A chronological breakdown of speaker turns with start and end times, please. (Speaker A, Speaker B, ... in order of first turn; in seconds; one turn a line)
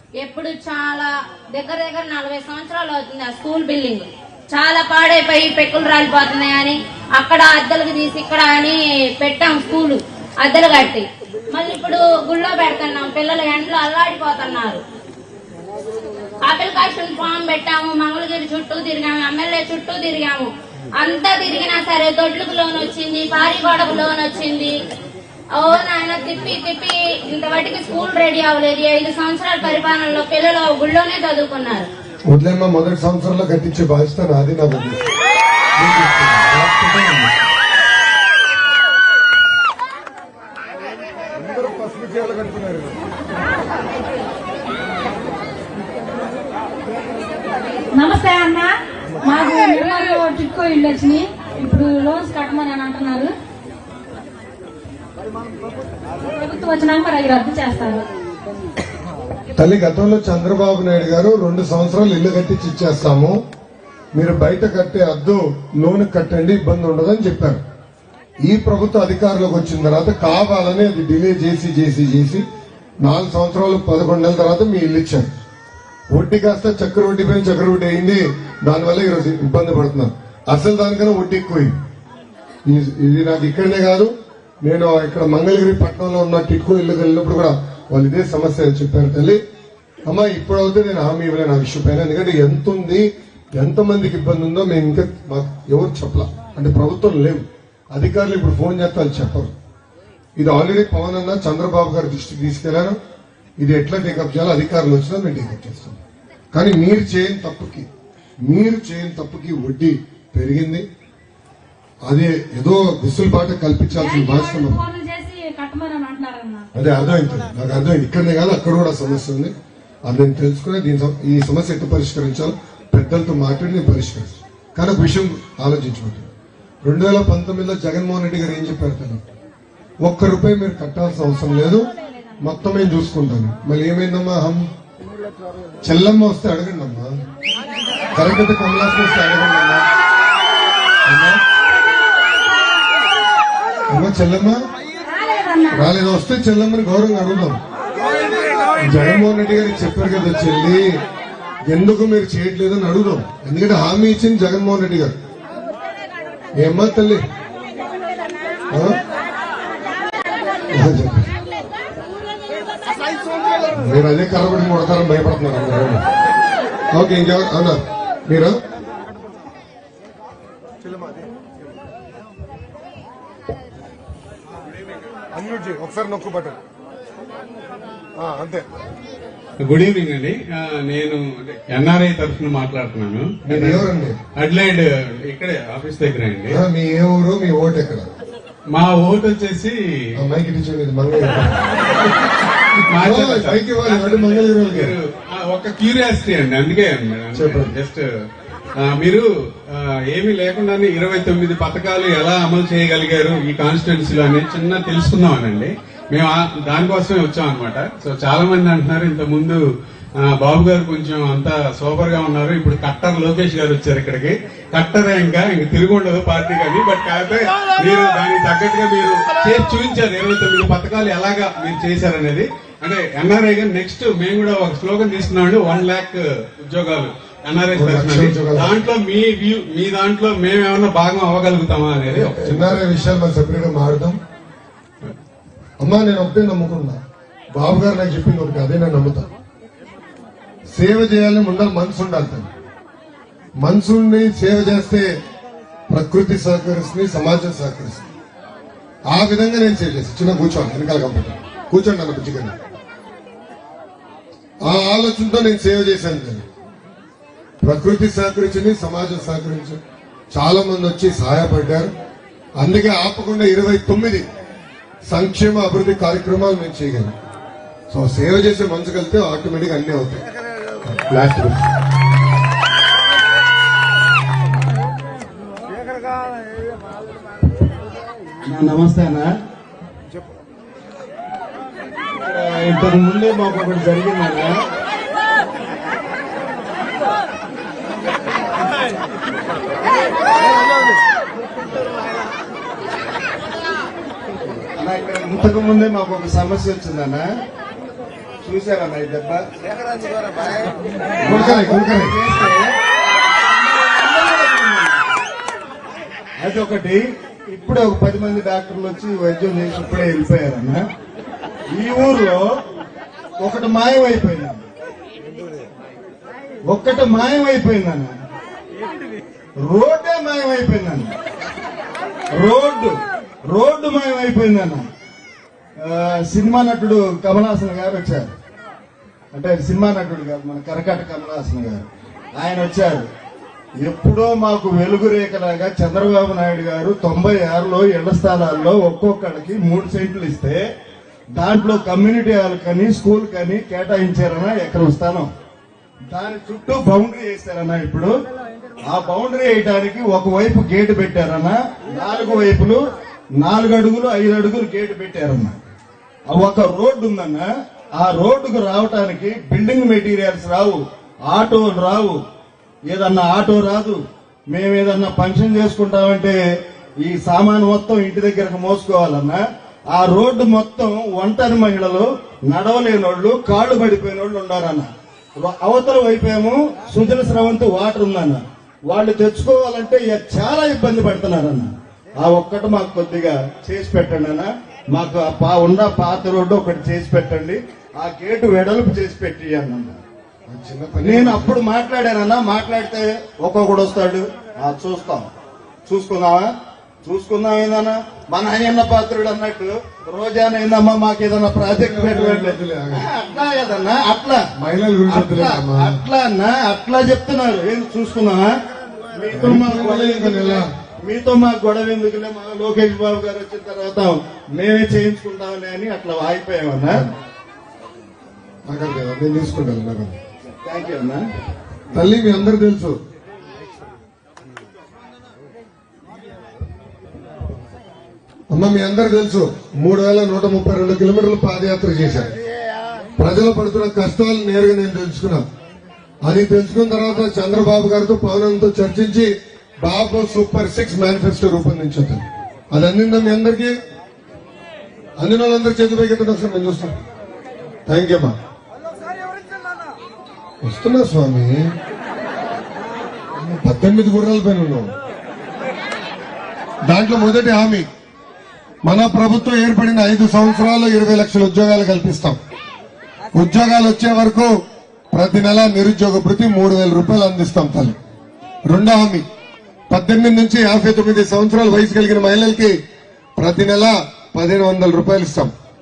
Speaker A: 0.2-14.8
Speaker A: 16.4-24.7
Speaker A: 25.5-31.9
Speaker B: 32.2-35.1
Speaker B: 35.8-37.4
Speaker B: 41.4-43.0
Speaker C: 47.9-53.3
Speaker C: 56.2-58.0
Speaker B: 59.5-63.4
Speaker B: 64.1-67.6
Speaker B: 68.4-72.4
Speaker B: 73.0-75.3
Speaker B: 76.1-81.8
Speaker B: 82.6-89.4
Speaker B: 90.0-99.5
Speaker B: 100.4-103.0
Speaker B: 103.6-106.0
Speaker B: 106.5-107.9
Speaker B: 108.4-110.9
Speaker B: 112.0-114.8
Speaker C: 113.9-116.7
Speaker B: 116.7-119.5
Speaker B: 120.0-126.3
Speaker B: 126.8-129.2
Speaker B: 130.0-134.7
Speaker B: 135.8-137.2
Speaker B: 138.1-139.9
Speaker B: 141.1-141.4
Speaker B: 143.9-144.6
Speaker C: 145.1-145.9
Speaker B: 145.7-147.6
Speaker B: 148.8-150.9
Speaker B: 151.7-155.1
Speaker B: 156.6-157.2
Speaker B: 158.7-159.0
Speaker B: 160.7-161.3
Speaker B: 163.8-166.0
Speaker B: 166.9-168.6
Speaker B: 170.8-171.3
Speaker B: 175.3-176.6
Speaker B: 178.2-178.8
Speaker D: 179.6-183.8
Speaker B: 183.4-184.2
Speaker D: 184.4-186.6
Speaker B: 186.5-188.1
Speaker D: 188.7-189.8
Speaker B: 190.2-191.9
Speaker B: 192.7-195.0
Speaker D: 192.9-198.0
Speaker B: 197.3-197.7
Speaker D: 198.8-209.6
Speaker D: 210.2-232.8
Speaker B: 227.7-228.8
Speaker B: 232.1-234.2
Speaker B: 235.8-237.0
Speaker B: 237.5-239.3
Speaker B: 240.7-242.5
Speaker B: 243.6-245.2
Speaker B: 245.9-248.1
Speaker B: 249.1-252.6
Speaker B: 254.6-256.5
Speaker B: 257.6-259.8
Speaker B: 260.3-261.9
Speaker B: 262.6-264.3
Speaker B: 265.0-267.1
Speaker B: 267.9-270.2
Speaker B: 270.8-271.7
Speaker E: 278.4-279.3
Speaker E: 282.2-284.6
Speaker E: 294.8-297.3
Speaker E: 298.4-299.4
Speaker B: 301.2-302.2
Speaker E: 301.2-302.7
Speaker E: 303.9-305.2
Speaker E: 306.4-310.8
Speaker E: 311.7-312.4
Speaker E: 313.4-314.7
Speaker E: 316.6-318.1
Speaker E: 319.6-321.1
Speaker E: 322.3-324.9
Speaker E: 325.8-328.3
Speaker E: 329.3-333.1
Speaker E: 333.8-340.6
Speaker E: 341.3-345.3
Speaker E: 346.1-348.1
Speaker E: 348.8-352.8
Speaker E: 353.4-355.6
Speaker E: 356.3-362.2
Speaker E: 362.9-366.4
Speaker E: 367.0-374.9
Speaker E: 375.4-390.0
Speaker B: 390.5-391.6
Speaker E: 391.0-395.3
Speaker E: 395.8-396.5
Speaker E: 397.0-404.4
Speaker B: 401.6-403.1
Speaker B: 404.6-406.0
Speaker E: 405.1-408.5
Speaker E: 409.1-417.1
Speaker B: 409.3-410.7
Speaker B: 418.6-420.2
Speaker E: 420.6-421.3
Speaker B: 421.9-423.0
Speaker B: 428.5-432.4
Speaker B: 433.2-435.4
Speaker B: 436.2-443.8
Speaker B: 445.2-446.9
Speaker B: 447.9-448.4
Speaker B: 450.6-451.7
Speaker B: 453.3-454.9
Speaker B: 456.8-457.9
Speaker B: 458.8-462.4
Speaker B: 463.3-464.5
Speaker B: 465.1-467.9
Speaker B: 468.6-469.3
Speaker B: 469.9-472.8
Speaker B: 473.4-475.5